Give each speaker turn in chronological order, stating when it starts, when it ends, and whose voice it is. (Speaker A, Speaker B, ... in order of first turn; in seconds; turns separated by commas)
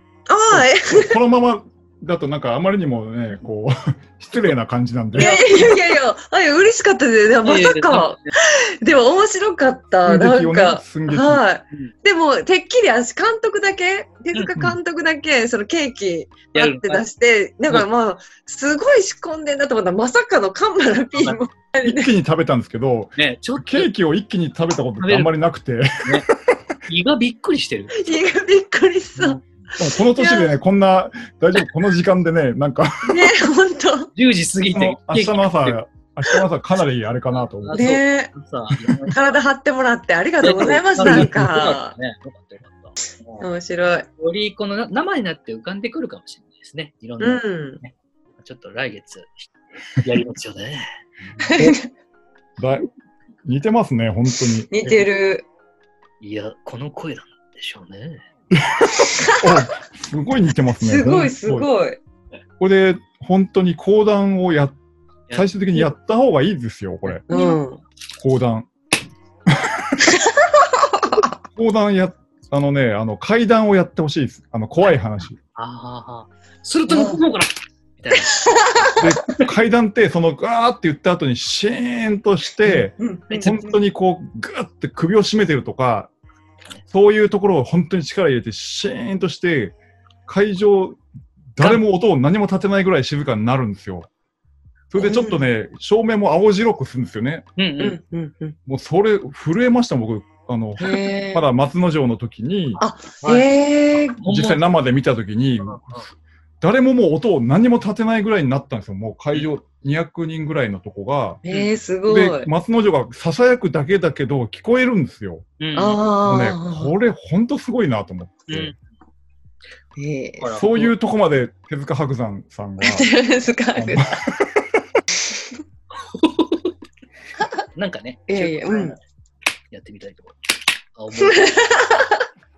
Speaker A: 0.3-1.2, Speaker B: 0.5-5.7, Speaker A: 5.1-22.1, Speaker C: 5.2-5.7, Speaker C: 7.4-8.3, Speaker B: 10.1-11.4, Speaker C: 16.5-17.1, Speaker B: 21.8-26.5, Speaker C: 23.2-23.9, Speaker C: 25.0-25.3, Speaker C: 26.9-27.9, Speaker A: 27.9-29.4, Speaker B: 29.8-33.3, Speaker A: 30.1-30.6, Speaker A: 33.1-34.1, Speaker C: 34.1-35.8, Speaker B: 34.7-38.0, Speaker C: 37.6-39.2, Speaker A: 37.7-38.3, Speaker A: 39.1-41.9, Speaker C: 40.4-43.5, Speaker B: 41.0-41.4, Speaker A: 43.4-44.1, Speaker C: 44.2-49.5, Speaker A: 47.2-47.8, Speaker C: 50.0-51.7, Speaker A: 51.4-51.9, Speaker B: 52.6-52.9, Speaker B: 53.4-54.7, Speaker A: 54.7-55.5, Speaker C: 54.8-55.1, Speaker C: 56.2-58.2, Speaker B: 58.5-61.7, Speaker A: 59.2-59.4, Speaker A: 60.8-62.0, Speaker B: 62.6-64.8, Speaker B: 65.3-67.2, Speaker C: 67.0-67.6, Speaker A: 67.3-67.8, Speaker B: 68.2-68.7, Speaker B: 69.5-69.8, Speaker B: 71.5-75.4, Speaker C: 75.5-78.4, Speaker A: 76.9-77.2, Speaker A: 78.2-79.0, Speaker B: 78.9-86.1, Speaker A: 83.0-83.8, Speaker C: 83.3-83.5, Speaker B: 86.9-89.8, Speaker B: 90.3-91.0, Speaker B: 91.5-94.1, Speaker B: 94.9-97.5, Speaker A: 95.0-95.5, Speaker C: 97.6-98.0, Speaker A: 97.8-98.5, Speaker B: 98.7-102.8, Speaker A: 100.8-101.4, Speaker A: 102.8-104.2, Speaker C: 103.2-103.5, Speaker C: 104.2-104.6, Speaker B: 104.2-111.4, Speaker C: 105.6-106.0, Speaker A: 111.4-112.5, Speaker B: 112.1-115.5, Speaker C: 115.6-116.0, Speaker A: 115.7-116.9, Speaker B: 116.2-118.7, Speaker C: 118.5-118.8, Speaker A: 120.0-120.5, Speaker C: 120.4-120.9, Speaker B: 120.5-123.0, Speaker A: 122.8-124.0, Speaker B: 123.8-124.8, Speaker C: 125.9-126.7, Speaker C: 127.7-129.0, Speaker A: 128.3-129.0, Speaker C: 129.7-130.3, Speaker C: 130.9-131.6, Speaker A: 131.2-132.2